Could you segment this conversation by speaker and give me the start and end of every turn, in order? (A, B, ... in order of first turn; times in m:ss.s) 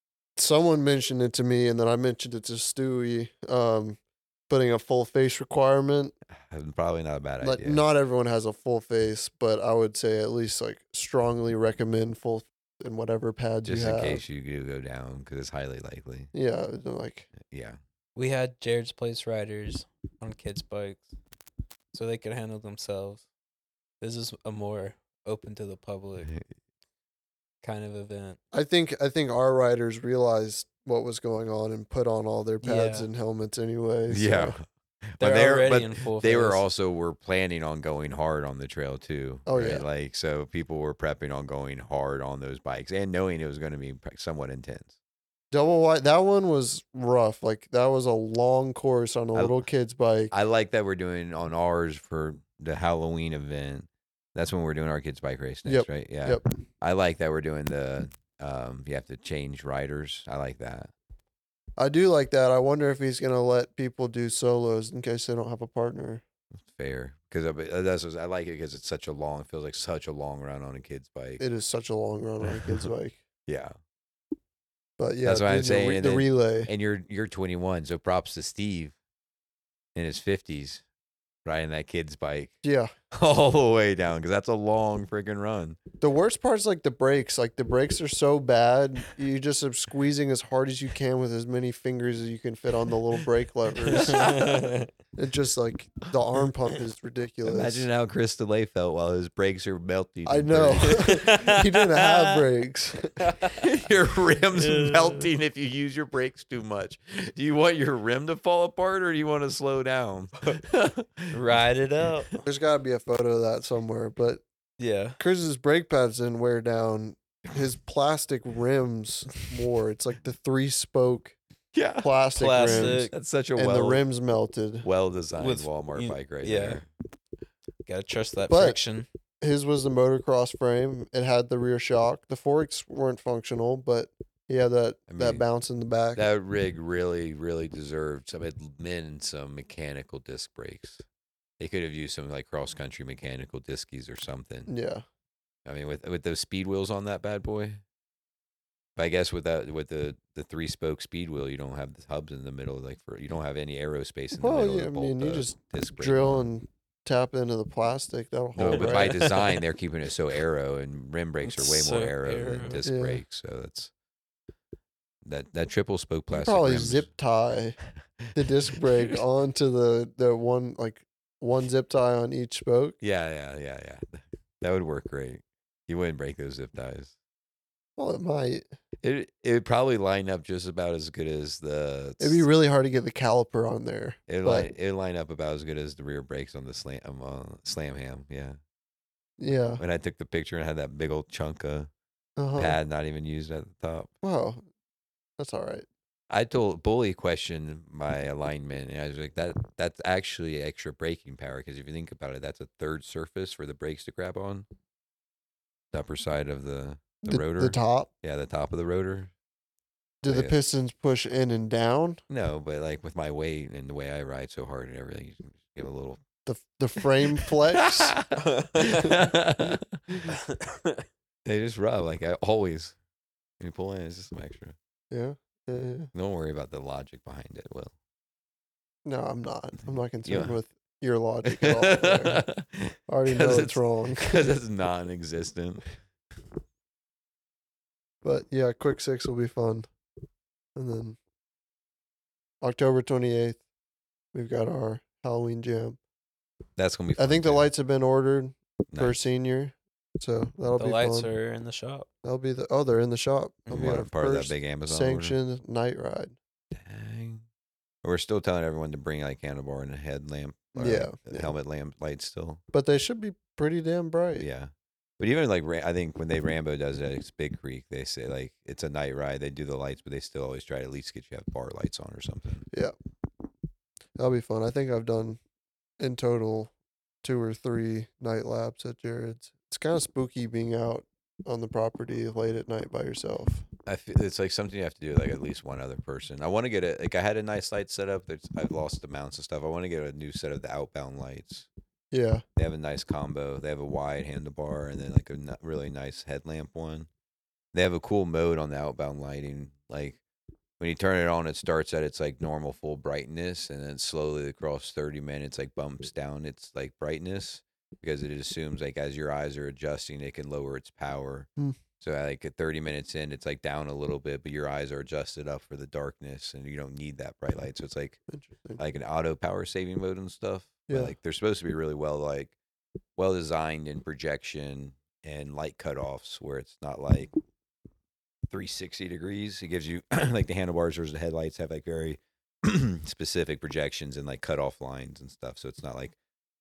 0:00.4-0:06.2 A
0:06.4-0:07.8 B
0:07.4-0:14.2 A
0:13.6-0:16.3 B
0:16.3-0:17.3 A
0:17.4-0:17.8 B
0:18.2-0:21.1 C
0:21.9-0:23.2 C
0:24.0-0:26.3 C
0:27.6-0:28.4 C
0:28.5-0:34.6 A
0:32.6-0:33.1 C
0:34.1-0:45.0 B
0:35.2-0:36.6 C
0:39.5-0:39.9 A
0:45.5-0:50.3 A
0:50.3-1:00.9 B
0:55.7-0:56.5 A
1:01.8-1:06.2 A
1:06.6-1:11.4 B
1:11.4-1:13.2 A
1:12.4-1:12.9 B
1:13.5-1:13.7 B
1:15.0-1:16.7 A
1:15.2-1:19.0 B
1:20.0-1:20.8 B
1:21.4-1:22.6 B
1:22.6-1:22.9 A
1:23.1-1:25.8 B
1:26.0-1:34.3 A
1:33.9-1:34.6 B
1:33.9-1:34.9 C
1:35.2-1:37.9 A
1:37.4-1:41.3 B
1:40.3-1:43.2 A
1:40.9-1:42.4 C
1:43.2-1:43.6 C
1:43.5-1:51.4 B
1:44.6-1:45.3 C
1:51.3-1:52.3 C
1:52.4-1:54.4 A
1:54.8-1:55.2 C
1:55.2-2:01.4 A
2:01.7-2:04.0 B
2:02.0-2:04.9 A
2:02.4-2:03.1 C
2:04.8-2:06.9 B
2:05.4-2:06.8 C
2:07.9-2:09.1 C
2:08.5-2:08.8 A
2:09.4-2:16.2 A
2:15.1-2:15.4 B
2:16.2-2:21.0 B
2:21.6-2:24.7 B
2:24.7-2:25.0 A
2:25.7-2:27.8 B
2:29.0-2:36.5 B
2:34.4-2:39.3 A
2:38.6-2:43.9 B
2:38.7-2:39.6 C
2:41.4-2:42.8 C
2:42.8-2:43.2 A
2:45.2-2:47.1 B
2:46.3-2:47.8 A
2:48.2-2:48.8 B
2:48.3-2:53.0 A
2:53.0-2:57.2 B
2:58.0-2:58.6 A
2:59.0-3:02.4 B
3:02.2-3:04.7 A
3:04.3-3:08.6 B
3:09.4-3:09.8 A
3:09.8-3:11.9 B
3:12.4-3:12.8 A
3:12.6-3:14.1 B
3:14.2-3:14.6 A
3:15.4-3:15.9 A
3:16.3-3:24.7 B
3:25.9-3:29.3 B
3:27.3-3:28.1 A
3:30.2-3:32.2 A
3:30.3-3:30.5 B
3:32.3-3:36.2 B
3:36.5-3:38.2 A
3:37.4-3:40.3 B
3:38.4-3:39.1 C
3:39.0-3:40.3 A
3:40.3-3:41.0 C
3:41.4-3:43.0 B
3:43.6-3:44.8 B
3:45.1-3:46.1 A
3:46.1-3:47.9 B
3:49.0-3:52.5 A
3:50.2-3:50.6 B
3:51.4-3:55.9 B
3:53.1-3:54.5 A
3:58.2-3:59.9 A
4:00.8-4:01.2 A
4:02.6-4:03.6 A
4:04.3-4:06.0 A
4:06.8-4:07.7 B
4:07.2-4:11.3 A
4:08.9-4:09.2 B
4:10.8-4:12.1 C
4:12.2-4:16.4 A
4:13.7-4:14.0 C
4:13.7-4:15.4 B
4:16.7-4:17.4 B
4:18.0-4:22.6 B
4:20.8-4:21.6 A
4:22.7-4:24.5 A
4:24.4-4:32.7 B
4:34.2-4:35.4 A
4:36.0-4:36.7 A
4:37.2-4:43.7 A
4:43.9-4:51.7 B
4:52.1-4:52.4 A
4:52.6-4:57.1 B
4:57.7-5:00.2 B
5:00.8-5:11.5 B
5:12.0-5:18.2 B
5:18.3-5:18.8 A
5:18.8-5:22.6 B
5:20.9-5:21.2 A
5:23.2-5:27.3 B
5:28.5-5:36.2 B